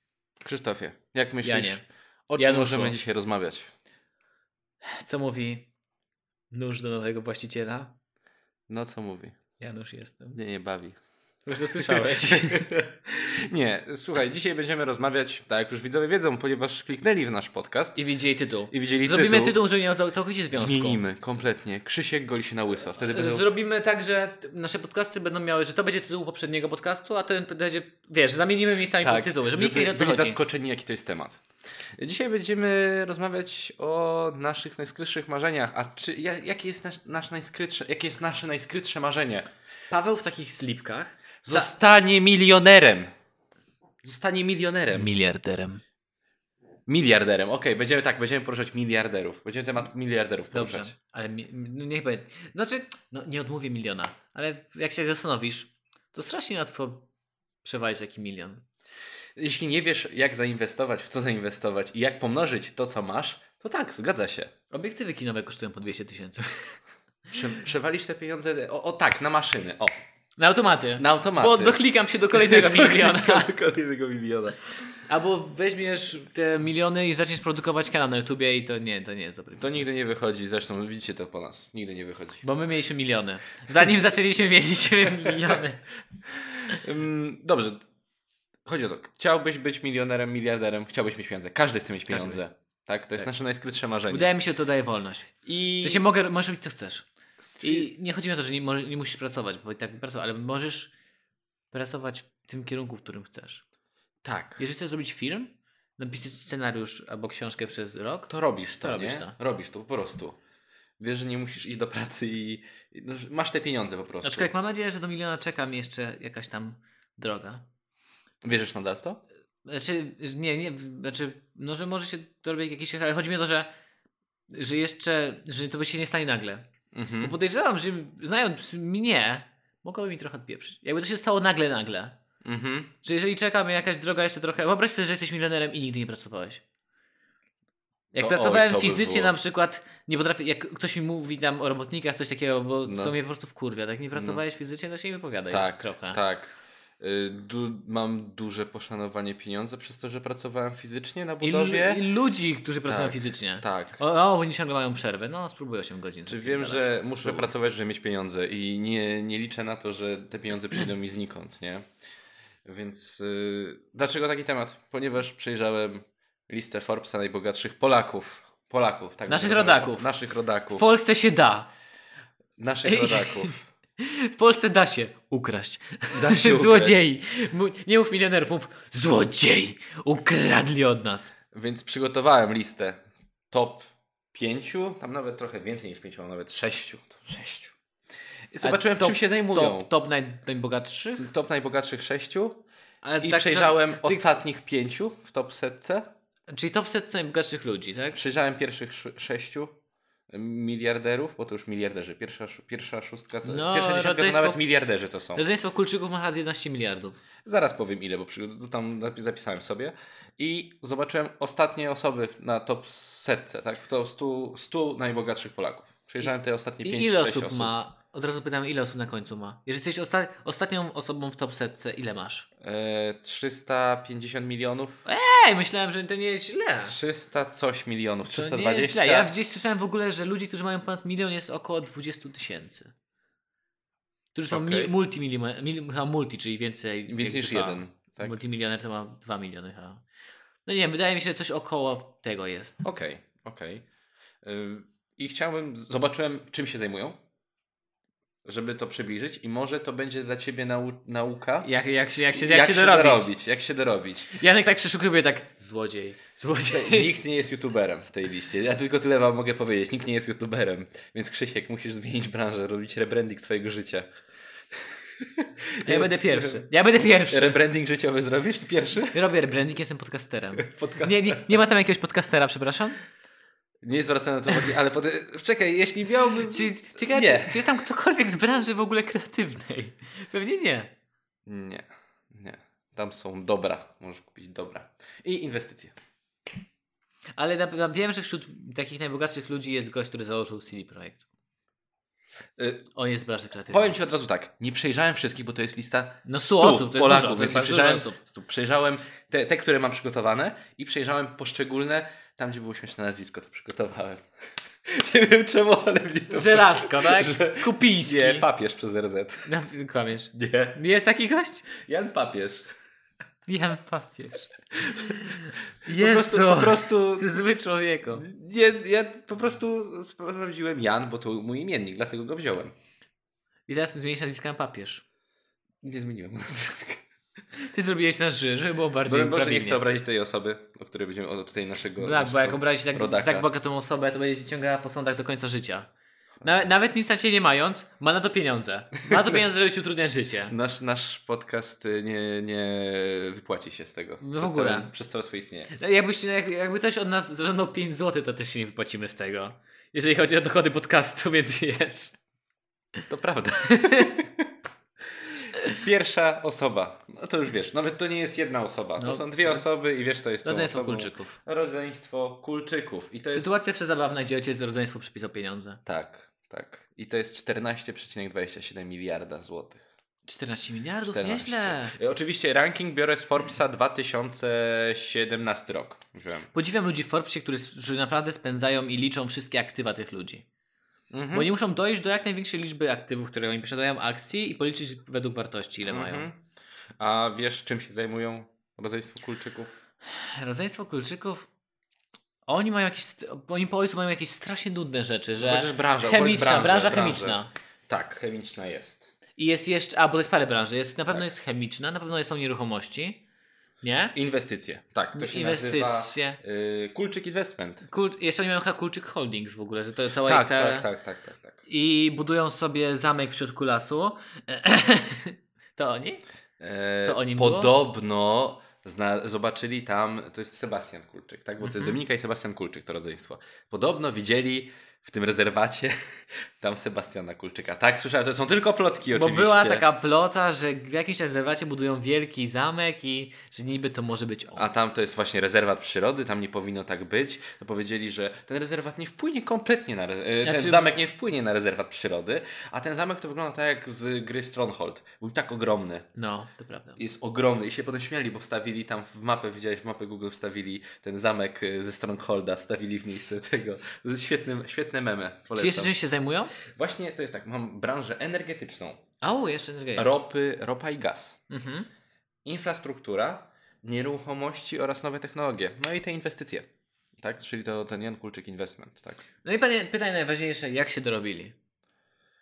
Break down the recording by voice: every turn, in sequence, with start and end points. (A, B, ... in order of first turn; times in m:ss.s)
0:00.4-0:03.7 A
0:01.4-0:01.8 B
0:02.4-0:03.0 B
0:04.8-0:05.7 B
0:06.5-0:07.9 B
0:08.7-0:09.4 A
0:09.6-0:10.4 B
0:10.4-0:11.0 A
0:11.5-0:12.7 B
0:11.6-0:18.0 A
0:18.0-0:21.0 B
0:18.7-0:19.6 A
0:20.5-0:23.5 A
0:22.9-0:30.4 B
0:29.0-0:31.4 A
0:32.0-0:39.5 A
0:39.9-0:41.7 B
0:41.4-0:43.1 A
0:44.0-0:45.1 A
0:44.9-0:45.8 B
0:46.9-0:50.9 A
0:50.5-0:57.1 B
0:57.6-0:58.6 B
0:59.4-1:04.5 A
1:04.7-1:06.8 B
1:07.3-1:09.9 A
1:10.4-1:13.5 B
1:11.0-1:14.6 A
1:15.1-1:19.9 B
1:19.6-1:22.4 A
1:22.4-1:25.9 B
1:26.6-1:27.9 A
1:28.7-1:34.3 A
1:32.1-1:32.4 B
1:34.1-1:37.1 B
1:35.5-1:36.1 A
1:37.4-1:37.9 A
1:37.6-1:40.9 B
1:41.7-1:43.6 B
1:44.2-1:44.6 A
1:44.6-1:49.4 B
1:48.3-1:50.4 A
1:51.0-1:54.5 A
1:54.2-1:57.6 B
1:58.4-1:59.2 A
1:59.6-2:03.7 B
2:04.5-2:06.7 B
2:06.9-2:07.4 A
2:07.2-2:12.2 B
2:12.4-2:12.9 A
2:13.0-2:16.6 B
2:18.1-2:26.2 B
2:18.2-2:19.4 A
2:22.9-2:23.1 A
2:24.2-2:24.4 A
2:25.5-2:32.0 A
2:31.4-2:37.5 B
2:32.9-2:34.0 A
2:36.3-2:41.8 A
2:42.6-2:50.9 A
2:49.3-2:50.1 B
2:50.7-2:51.7 B
2:52.6-2:53.6 A
2:52.8-3:01.3 B
2:56.1-2:57.1 A
3:01.5-3:07.8 A
3:08.5-3:09.9 A
3:08.6-3:11.3 B
3:11.2-3:12.6 A
3:13.0-3:14.3 B
3:13.2-3:16.1 A
3:16.5-3:18.2 B
3:18.1-3:19.8 A
3:20.3-3:25.4 A
3:23.5-3:24.6 B
3:25.4-3:27.2 B
3:27.4-3:37.7 A
3:36.8-3:42.5 B
3:42.6-3:45.0 A
3:45.1-3:47.0 B
3:46.8-3:49.3 A
3:48.3-3:52.9 B
3:54.3-4:00.0 B
3:54.5-3:54.9 A
3:57.1-3:58.4 A
4:00.7-4:02.8 B
4:02.8-4:03.8 A
4:04.4-4:07.2 A
4:08.4-4:11.7 A
4:11.6-4:13.3 B
4:12.3-4:14.4 A
4:14.3-4:17.1 B
4:16.7-4:24.1 A
4:24.7-4:26.7 A
4:25.8-4:27.6 B
4:27.3-4:29.2 A
4:29.1-4:33.0 B
4:30.6-4:31.6 A
4:33.8-4:37.8 A
4:36.4-4:40.9 B
4:41.5-4:46.0 A
4:47.4-4:51.2 B
4:52.6-4:52.8 A
4:53.0-4:54.0 B
4:53.7-5:04.2 A
4:56.3-4:58.2 B
5:04.8-5:09.5 A
5:06.3-5:08.5 B
5:09.5-5:11.7 B
5:10.3-5:10.8 A
5:11.8-5:12.7 A
5:13.5-5:18.3 B
5:14.9-5:17.4 A
5:18.1-5:22.8 A
5:23.7-5:25.0 B
5:25.8-5:27.0 A
5:27.6-5:29.8 B
5:29.0-5:33.5 A
5:32.0-5:35.9 B
5:36.4-5:40.5 B
5:39.1-5:39.5 A
5:40.5-5:45.7 A
5:44.2-5:44.9 B
5:45.7-5:52.1 B
5:53.1-5:54.5 A
5:53.7-5:54.2 B
5:55.6-6:03.5 A
5:59.0-5:59.6 B
6:00.4-6:01.4 B
6:03.3-6:05.8 B
6:05.9-6:09.8 A
6:10.2-6:12.0 B
6:11.0-6:16.5 A
6:16.5-6:20.4 B
6:21.1-6:21.5 A
6:21.3-6:26.3 B
6:25.8-6:26.4 A
6:27.0-6:29.7 A
6:30.1-6:31.5 B
6:32.5-6:37.5 B
6:35.4-6:39.0 A
6:39.4-6:43.2 B
6:43.8-6:44.2 B
6:44.1-6:47.9 A
6:45.1-6:46.4 B
6:47.9-6:50.9 B
6:50.2-6:51.6 A
6:51.7-6:56.2 B
6:56.6-7:06.0 A
6:57.0-6:57.7 B
7:01.6-7:02.0 B
7:06.6-7:09.8 A
7:09.1-7:14.7 B
7:14.6-7:26.1 A
7:20.4-7:20.8 B
7:26.2-7:27.0 B
7:27.0-7:36.0 A
7:35.6-7:36.5 B
7:36.6-7:39.0 A
7:39.2-7:40.1 B
7:40.0-7:41.4 A
7:41.5-7:41.9 B
7:42.4-7:46.7 A
7:47.2-7:49.2 A
7:49.4-7:51.6 B